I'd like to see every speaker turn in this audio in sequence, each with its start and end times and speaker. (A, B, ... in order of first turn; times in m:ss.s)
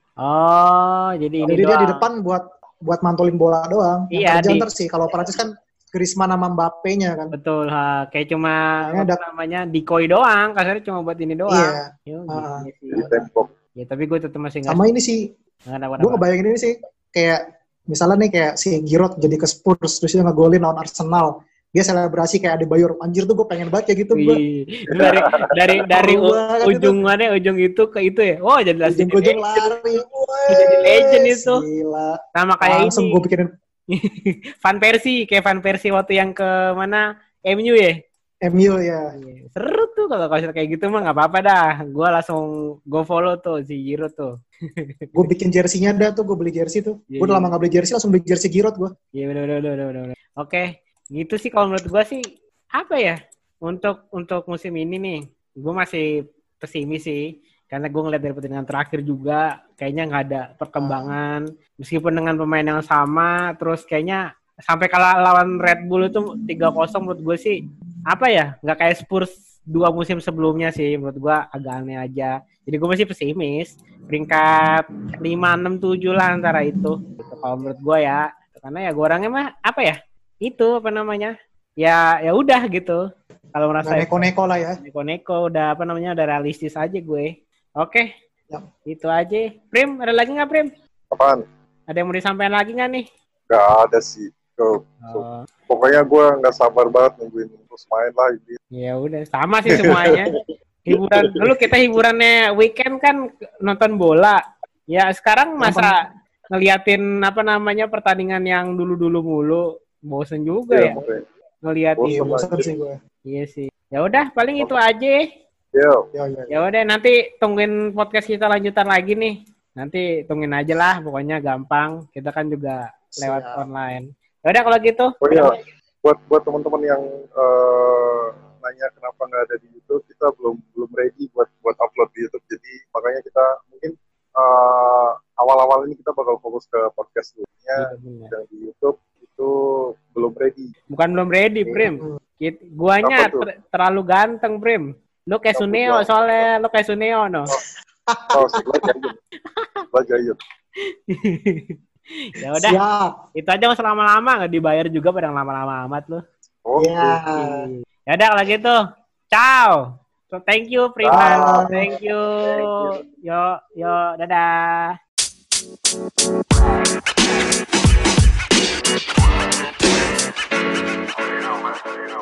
0:00.2-0:02.0 A
0:01.4-0:07.3 B
0:04.1-0:04.6 A
0:07.3-0:13.0 A
0:08.8-0:09.2 B
0:11.5-0:13.3 B
0:12.9-0:13.5 C
0:13.8-0:14.8 A
0:14.7-0:15.2 B
0:15.7-0:16.2 A
0:16.0-0:24.4 B
0:24.1-0:29.7 A
0:24.9-0:25.5 C
0:25.9-0:27.0 B
0:28.8-0:33.5 B
0:30.5-0:31.6 A
0:32.4-0:33.2 A
0:33.9-0:38.0 A
0:38.4-0:39.1 B
0:39.1-0:45.1 A
0:45.2-0:48.9 B
0:47.1-0:47.5 A
0:49.2-0:52.2 A
0:52.8-0:56.1 A
0:56.6-1:07.6 A
1:00.8-1:01.1 B
1:08.1-1:23.0 A
1:17.2-1:17.7 B
1:23.5-1:24.2 A
1:23.8-1:24.8 B
1:24.8-1:28.1 A
1:28.9-1:30.7 A
1:31.1-1:31.4 C
1:31.9-1:33.0 A
1:33.5-1:38.6 C
1:35.0-1:35.4 A
1:38.7-1:40.3 A
1:39.7-1:40.2 C
1:40.8-1:44.4 A
1:40.9-1:41.7 C
1:44.9-1:45.9 A
1:45.6-1:45.9 B
1:46.5-1:51.0 A
1:50.7-1:51.2 C
1:51.6-1:52.2 A
1:52.0-1:52.7 C
1:52.0-1:53.0 B
1:53.3-1:55.2 A
1:55.7-1:56.0 C
1:56.1-1:56.6 B
1:56.5-2:05.1 A
2:03.2-2:03.6 B
2:05.2-2:19.5 C
2:17.8-2:18.3 A
2:20.1-2:20.7 C
2:20.9-2:27.5 A
2:21.6-2:22.2 B
2:23.0-2:23.5 C
2:25.5-2:26.5 C
2:28.1-2:28.9 B
2:28.3-2:29.1 C
2:29.6-2:29.8 A
2:29.9-2:30.4 C
2:31.1-2:32.8 A
2:32.5-2:33.1 B
2:33.4-2:36.2 A
2:36.6-2:37.2 C
2:36.8-2:37.7 B
2:37.3-2:38.8 A
2:39.3-2:45.0 A
2:41.0-2:41.8 C
2:41.1-2:41.8 B
2:42.4-2:42.9 C